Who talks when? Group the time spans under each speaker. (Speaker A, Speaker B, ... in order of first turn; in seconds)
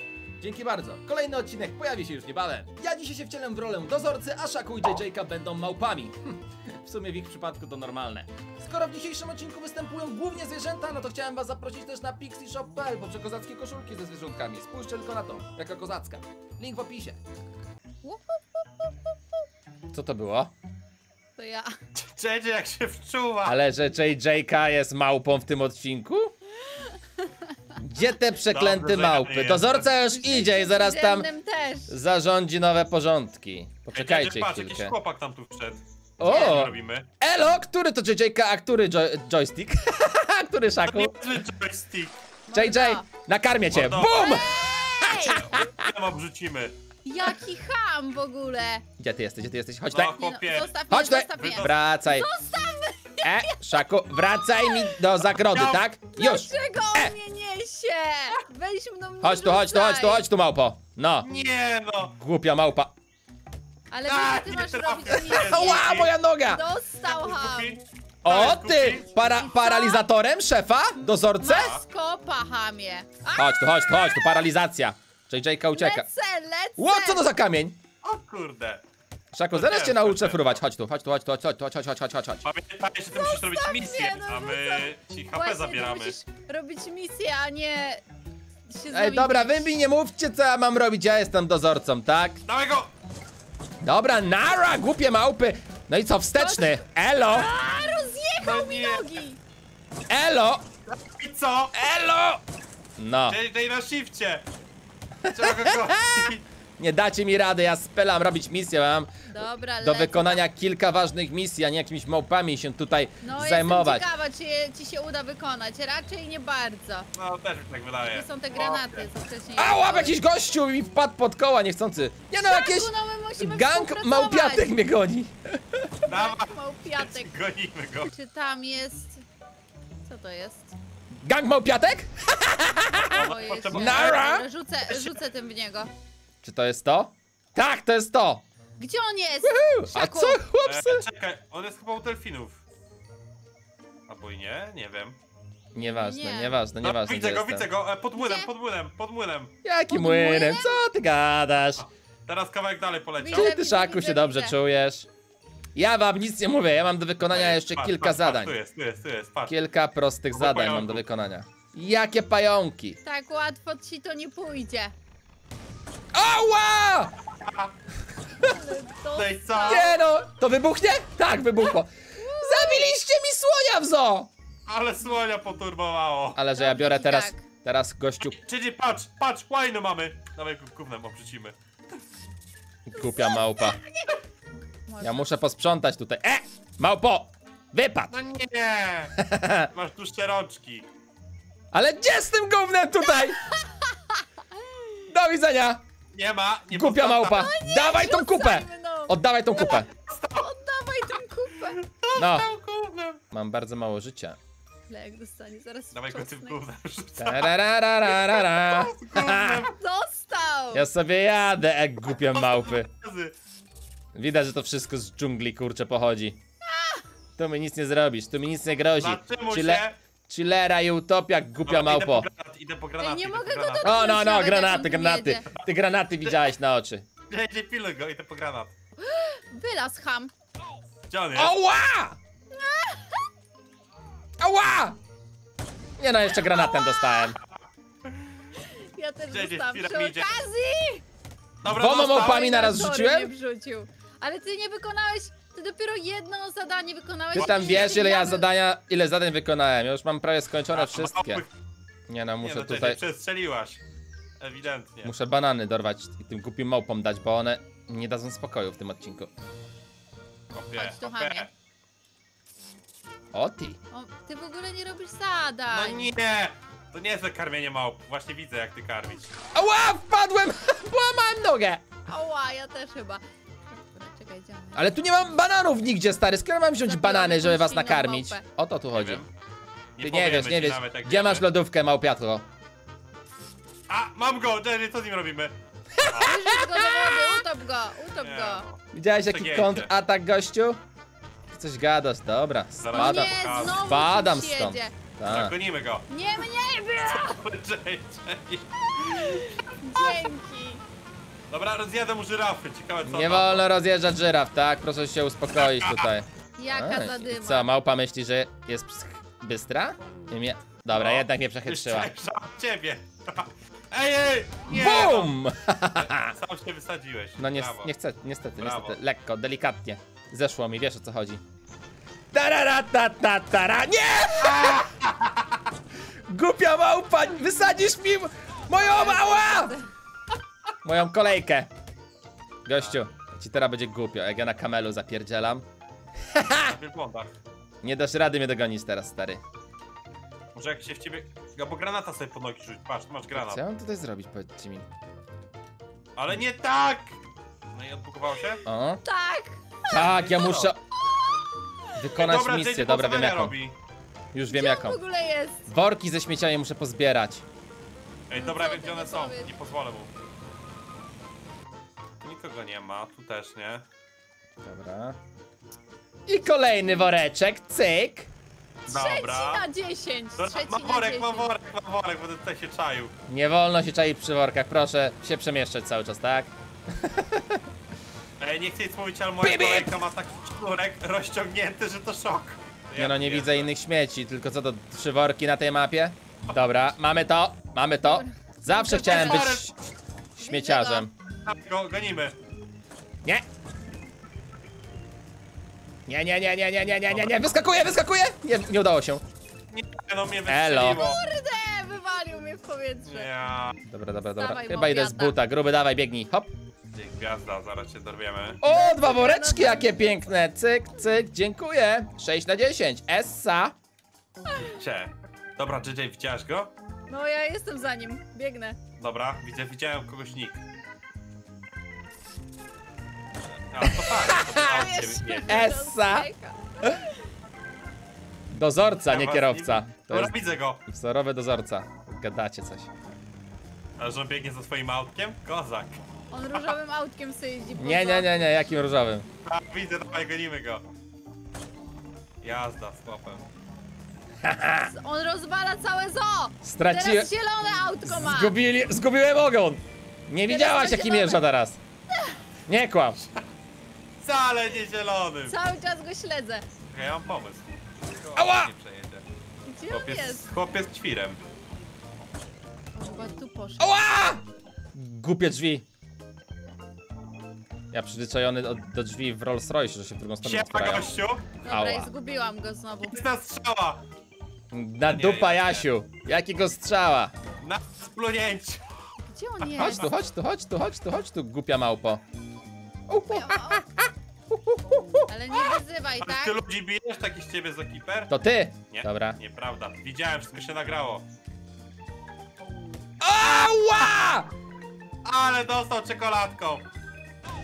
Speaker A: 0.4-17.2, 19.9-20.5, 23.4-26.3, 27.8-31.3, 31.9-34.9, 36.2-41.1, 42.5-45.7, 49.0-50.2, 50.9-52.3, 53.2-57.1, 59.2-61.3, 62.0-62.9, 65.3-66.6, 68.2-71.7, 73.3-76.0, 76.8-77.8, 79.3-82.5, 88.9-92.4, 93.8-97.5, 100.1-100.6, 101.7-102.4, 103.0-103.4, 105.2-109.1, 109.8-114.0, 119.6-125.9, 131.2-133.2, 133.7-134.4, 136.4-138.4, 139.4-141.0, 145.7-147.7, 149.6-151.8, 153.3-155.1, 155.7-158.5, 159.5-163.0, 166.1-167.1, 169.6-174.3, 176.3-178.4, 182.9-183.8, 185.0-188.1, 189.2-189.7, 191.7-193.5, 195.1-195.8, 196.7-199.9, 202.2-202.5, 203.3-204.4, 207.2-209.7, 210.7-212.9, 214.1-216.4, 217.4-222.3, 223.8-227.1, 231.3-232.2, 234.4-235.0, 236.0-237.4, 241.6-243.3, 247.3-251.4, 252.1-253.0, 255.0-259.3, 263.3-263.8, 269.5-271.8, 274.7-279.2, 280.0-282.4, 286.0-286.8, 288.9-290.8, 291.5-295.5, 303.0-312.1, 314.7-316.3, 317.4-321.4, 322.3-324.9, 326.3-329.8, 330.8-331.7, 332.6-335.6, 336.3-336.7, 337.8-339.4, 343.3-344.9, 348.6-349.0, 349.9-350.8, 351.9-353.6, 354.3-355.0, 355.6-357.4, 364.6-365.2, 366.3-368.3, 373.3-377.6, 379.4-379.9, 382.9-389.7, 390.4-391.1, 396.1-399.2, 400.5-401.0, 403.9-406.5, 408.6-413.7, 423.8-424.6, 425.4-426.3, 428.5-432.9, 437.8-439.3, 444.4-444.9, 446.6-447.3, 448.0-451.8, 452.7-453.2, 458.4-458.7, 463.8-464.4, 464.9-465.8, 467.9-471.1, 471.6-472.1, 474.7-477.3, 479.8-482.2, 483.1-485.3, 488.3-489.4, 493.2-494.5
Speaker B: 18.0-19.1, 21.4-21.7, 30.0-31.9, 42.5-43.1, 44.0-45.7, 47.0-48.8, 50.1-53.7, 54.4-55.0, 56.1-60.2, 63.9-67.8, 69.4-70.0, 71.4-73.9, 75.7-77.3, 83.1-88.0, 88.7-89.7, 96.3-99.4, 109.3-110.4, 113.2-117.1, 118.1-120.2, 122.4-124.8, 126.1-127.3, 128.1-129.2, 130.1-130.7, 133.1-135.9, 138.8-140.4, 145.8-146.6, 148.1-148.5, 149.9-150.8, 153.2-154.6, 163.0-164.9, 168.4-170.0, 172.2-172.9, 176.5-177.4, 183.0-184.2, 184.9-185.3, 193.1-194.2, 197.2-199.8, 200.3-201.8, 204.9-206.6, 209.8-210.8, 216.7-217.0, 223.0-225.5, 229.0-230.3, 232.5-233.2, 236.4-237.2, 238.6-241.0, 242.1-248.5, 260.7-261.5, 263.9-266.1, 272.1-274.9, 276.8-278.4, 286.2-288.6, 292.9-294.9, 296.1-297.4, 299.0-300.8, 306.6-307.7, 328.7-329.8, 349.0-350.6, 354.5-355.6, 358.3-359.5, 366.4-367.1, 368.9-371.5, 388.0-389.6, 390.4-391.1, 400.8-403.3, 404.3-405.4, 408.6-410.1, 414.5-414.8, 417.1-418.8, 424.4-427.2, 436.3-438.4, 444.8-448.5, 450.4-451.4, 455.5-456.7, 459.6-460.5, 462.9-464.1, 471.6-473.1, 479.3-480.1, 483.3-483.8, 485.3-486.6
Speaker C: 21.9-23.6, 28.5-29.9, 33.9-37.1, 40.9-42.1, 43.7-44.5, 45.3-46.7, 49.9-50.8, 51.3-51.8, 55.4-55.8, 61.2-62.1, 64.0-66.1, 67.0-69.1, 71.5-71.8, 78.0-78.8, 79.5-80.6, 82.4-86.2, 92.4-92.9, 98.4-99.2, 100.9-101.7, 103.3-104.4, 105.3-106.4, 117.1-119.1, 126.0-128.1, 132.9-134.2, 134.9-135.1, 140.6-142.6, 144.1-145.2, 146.8-149.5, 151.8-153.5, 157.2-159.5, 160.3-161.0, 167.4-167.7, 169.1-169.9, 174.7-176.4, 178.2-181.5, 188.1-189.1, 189.7-190.8, 196.1-197.5, 199.7-200.5, 201.8-203.2, 205.9-209.8, 212.1-213.3, 219.0-219.9, 221.7-224.0, 227.3-228.7, 231.1-231.6, 239.3-240.3, 241.6-242.4, 247.3-248.0, 250.7-251.5, 252.4-253.8, 254.4-255.1, 260.5-261.5, 265.7-269.3, 278.9-279.3, 280.0-281.5, 283.9-285.5, 286.1-286.4, 288.2-289.9, 292.8-293.8, 295.2-296.1, 297.1-299.3, 301.5-303.7, 305.6-306.0, 310.9-315.3, 316.0-317.9, 318.6-319.0, 324.4-325.6, 336.6-337.4, 340.5-343.6, 346.1-347.2, 347.7-348.6, 350.0-350.7, 352.1-353.8, 358.3-360.1, 362.2-363.9, 368.9-369.6, 370.4-373.1, 378.4-383.7, 388.9-389.7, 391.4-392.3, 397.1-397.4, 399.7-401.2, 403.0-403.8, 406.9-408.6, 414.6-416.7, 419.0-420.6, 423.7-425.6, 429.1-430.8, 434.0-436.0, 439.4-440.9, 442.4-443.4, 454.2-455.6, 456.9-459.2, 459.9-461.4, 470.4-471.6, 473.1-474.0, 475.1-475.9, 477.6-478.8, 479.7-480.0, 486.2-488.3, 488.9-491.2, 495.2-496.8